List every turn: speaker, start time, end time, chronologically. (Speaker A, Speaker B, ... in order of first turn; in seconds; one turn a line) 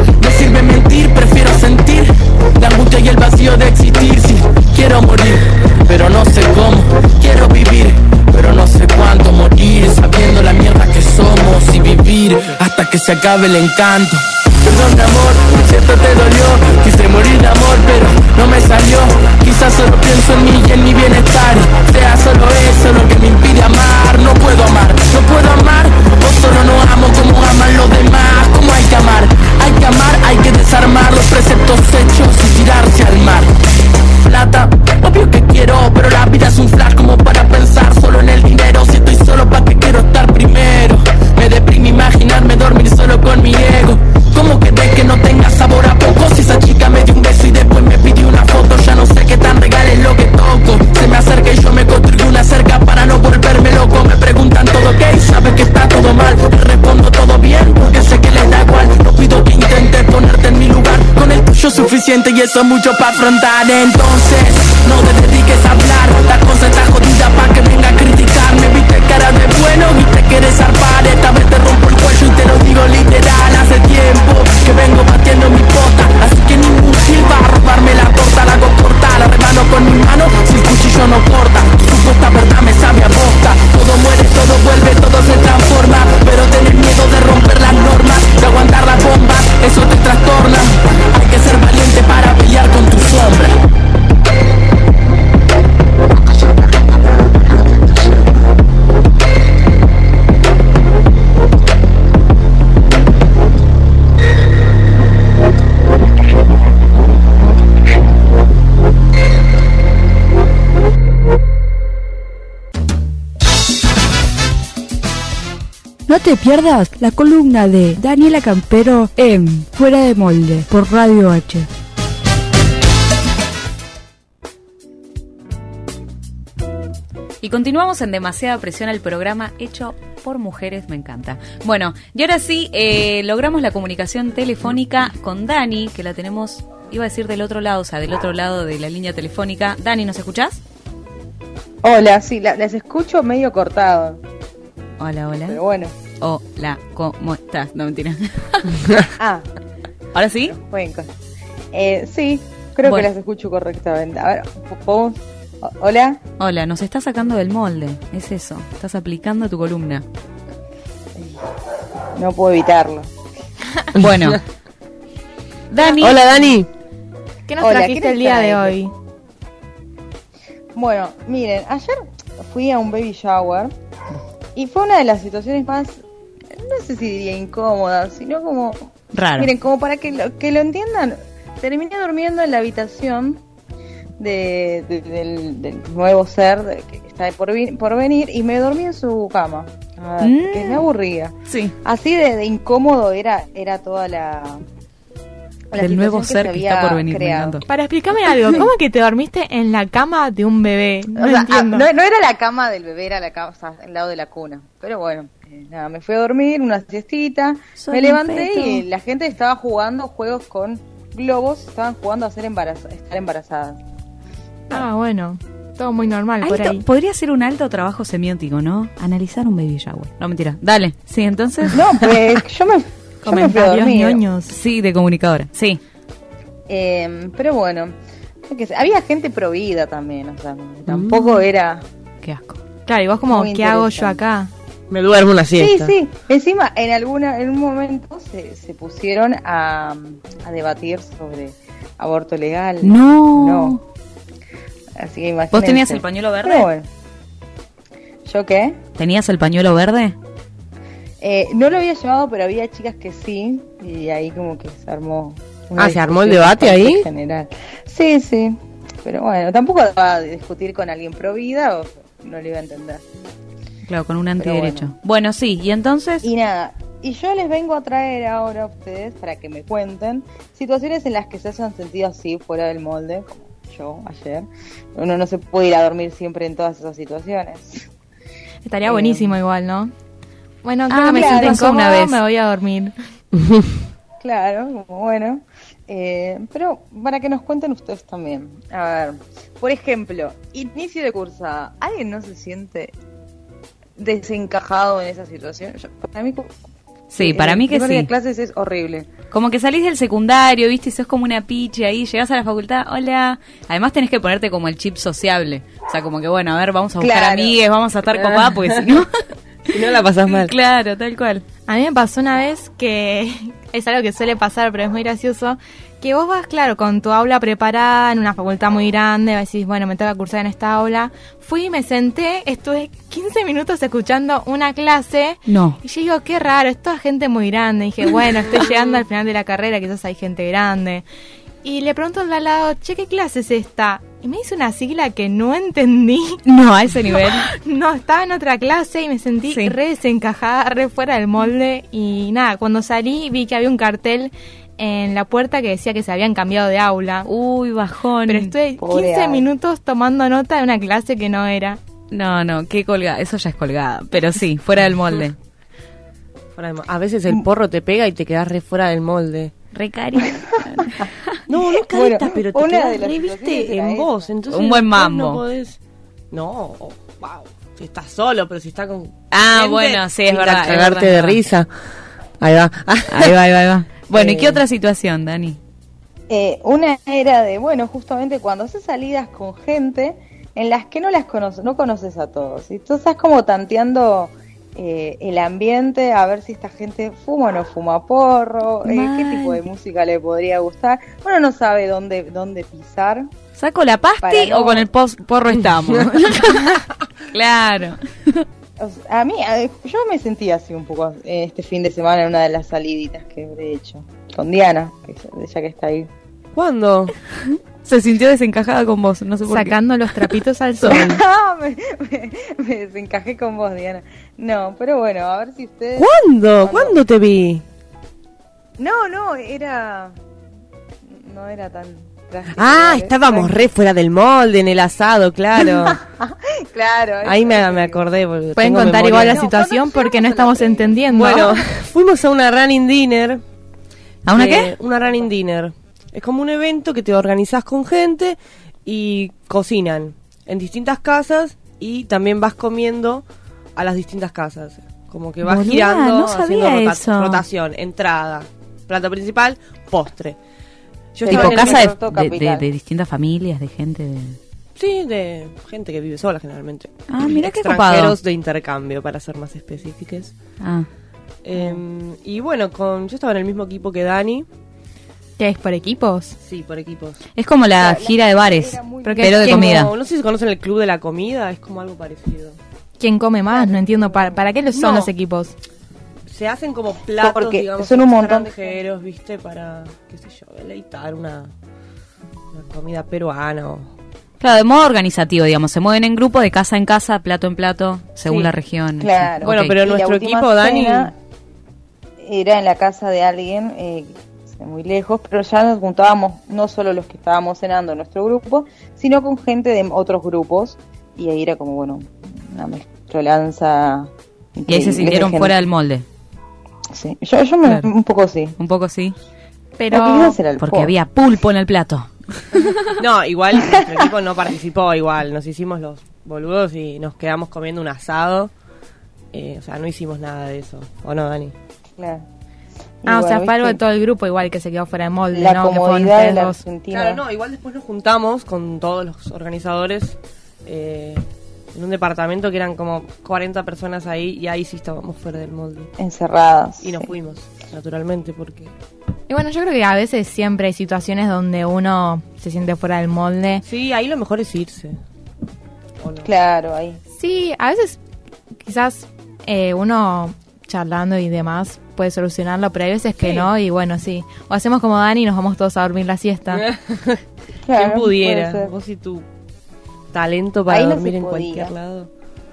Speaker A: 0.2-93.5
Speaker B: 116.1-121.7
Speaker C: 127.4-140.6
Speaker D: 141.8-144.2
Speaker C: 145.0-145.6
Speaker D: 145.5-145.9
Speaker C: 146.2-148.8
Speaker D: 149.2-149.5
Speaker C: 150.1-150.5
Speaker D: 150.4-151.1
Speaker D: 151.7-156.2
Speaker C: 156.4-160.1
Speaker D: 162.2-163.1
Speaker C: 163.9-164.4
Speaker C: 165.7-166.3
Speaker E: 165.8-166.5
Speaker F: 166.0-166.7
Speaker E: 167.5-168.9
Speaker D: 167.6-168.8
Speaker D: 170.7-173.7
Speaker D: 174.6-183.4
Speaker C: 179.1-179.5
Speaker D: 184.2-194.6
Speaker C: 190.2-190.9
Speaker C: 191.5-191.7
Speaker D: 195.7-197.6
Speaker C: 195.7-197.7
Speaker E: 197.7-201.9
Speaker D: 201.2-213.8
Speaker C: 207.8-208.8
Speaker E: 214.7-216.8
Speaker C: 216.4-221.8
Speaker D: 221.7-224.2
Speaker E: 223.2-224.6
Speaker C: 224.5-225.8
Speaker D: 226.7-227.9
Speaker D: 228.5-231.8
Speaker F: 230.9-231.3
Speaker C: 232.2-232.6
Speaker E: 232.8-234.5
Speaker D: 233.3-234.2
Speaker F: 234.9-235.9
Speaker D: 235.6-243.8
Speaker C: 242.8-243.8
Speaker D: 244.9-246.9
Speaker C: 245.5-246.7
Speaker D: 248.2-248.8
Speaker C: 248.9-250.2
Speaker D: 251.2-263.0
Speaker F: 255.8-257.1
Speaker C: 263.9-266.3
Speaker D: 264.4-264.9
Speaker D: 266.2-277.9
Speaker E: 278.6-279.9
Speaker D: 278.8-279.3
Speaker E: 280.6-282.9
Speaker C: 280.9-282.2
Speaker D: 281.1-281.6
Speaker D: 284.2-292.9
Speaker D: 294.0-296.5
Speaker C: 297.1-298.1
Speaker D: 297.2-299.1
Speaker C: 299.3-309.1
Speaker D: 307.0-307.6
Speaker F: 309.7-310.5
Speaker C: 310.3-311.4
Speaker E: 311.7-331.1
Speaker C: 325.5-325.8
Speaker E: 331.6-336.4
Speaker C: 336.4-337.5
Speaker E: 337.3-347.3
Speaker C: 339.5-339.7
Speaker C: 347.2-348.5
Speaker E: 348.3-351.8
Speaker D: 348.8-349.5
Speaker C: 352.1-355.4
Speaker F: 356.6-359.5
Speaker C: 359.7-361.4
Speaker F: 361.5-365.8
Speaker D: 361.8-364.3
Speaker C: 364.5-365.4
Speaker F: 366.3-371.7
Speaker C: 369.3-371.4
Speaker F: 372.4-373.3
Speaker C: 373.1-375.6
Speaker D: 374.1-374.6
Speaker D: 376.3-393.3
Speaker C: 388.8-389.6
Speaker C: 393.6-396.8
Speaker D: 394.2-394.9
Speaker C: 397.3-398.0
Speaker D: 398.8-406.1
Speaker F: 406.5-407.1
Speaker C: 407.8-409.8
Speaker E: 409.4-411.2
Speaker D: 410.8-417.0
Speaker F: 416.0-417.6
Speaker D: 418.8-420.2
Speaker D: 421.1-423.6
Speaker F: 422.6-426.0
Speaker D: 425.6-428.1
Speaker F: 427.2-429.5
Speaker E: 428.6-431.6
Speaker D: 429.3-431.4
Speaker F: 431.1-433.4
Speaker C: 434.2-434.7
Speaker F: 434.3-443.2
Speaker F: 443.8-450.4
Speaker C: 445.4-447.4
Speaker F: 451.1-451.9
Speaker D: 451.2-452.7
Speaker C: 451.3-454.4
Speaker F: 454.8-460.3
Speaker C: 457.1-458.2
Speaker C: 460.6-460.9
Speaker F: 461.4-464.4
Speaker D: 461.5-461.8
Speaker E: 465.4-466.4
Speaker F: 466.4-467.2
Speaker C: 467.4-469.9
Speaker D: 467.8-469.9
Speaker E: 469.0-469.9
Speaker F: 469.5-472.6
Speaker E: 473.0-475.5
Speaker D: 473.5-474.5
Speaker F: 474.8-475.1
Speaker F: 476.3-481.5
Speaker D: 477.2-478.9
Speaker F: 482.5-483.9
Speaker C: 484.4-489.8
Speaker D: 489.0-491.1
Speaker F: 489.4-491.1
Speaker D: 492.2-505.7
Speaker C: 504.7-506.1
Speaker D: 506.9-508.6
Speaker C: 507.6-507.9
Speaker C: 508.6-509.2
Speaker E: 509.8-510.4
Speaker D: 509.9-510.9
Speaker C: 510.6-512.7
Speaker F: 513.0-518.5
Speaker D: 513.5-514.0
Speaker F: 519.3-521.5
Speaker D: 522.0-522.3
Speaker D: 523.0-523.8
Speaker E: 523.1-526.6
Speaker D: 525.3-527.2
Speaker F: 526.9-535.9
Speaker D: 536.0-537.1
Speaker F: 536.8-538.7
Speaker E: 539.3-543.6
Speaker F: 543.6-545.0
Speaker F: 546.0-546.3
Speaker D: 546.2-547.0
Speaker E: 547.1-548.0
Speaker E: 548.6-556.7
Speaker F: 556.8-557.2
Speaker D: 557.6-558.7
Speaker F: 557.8-559.3
Speaker F: 560.1-562.1
Speaker D: 560.7-561.7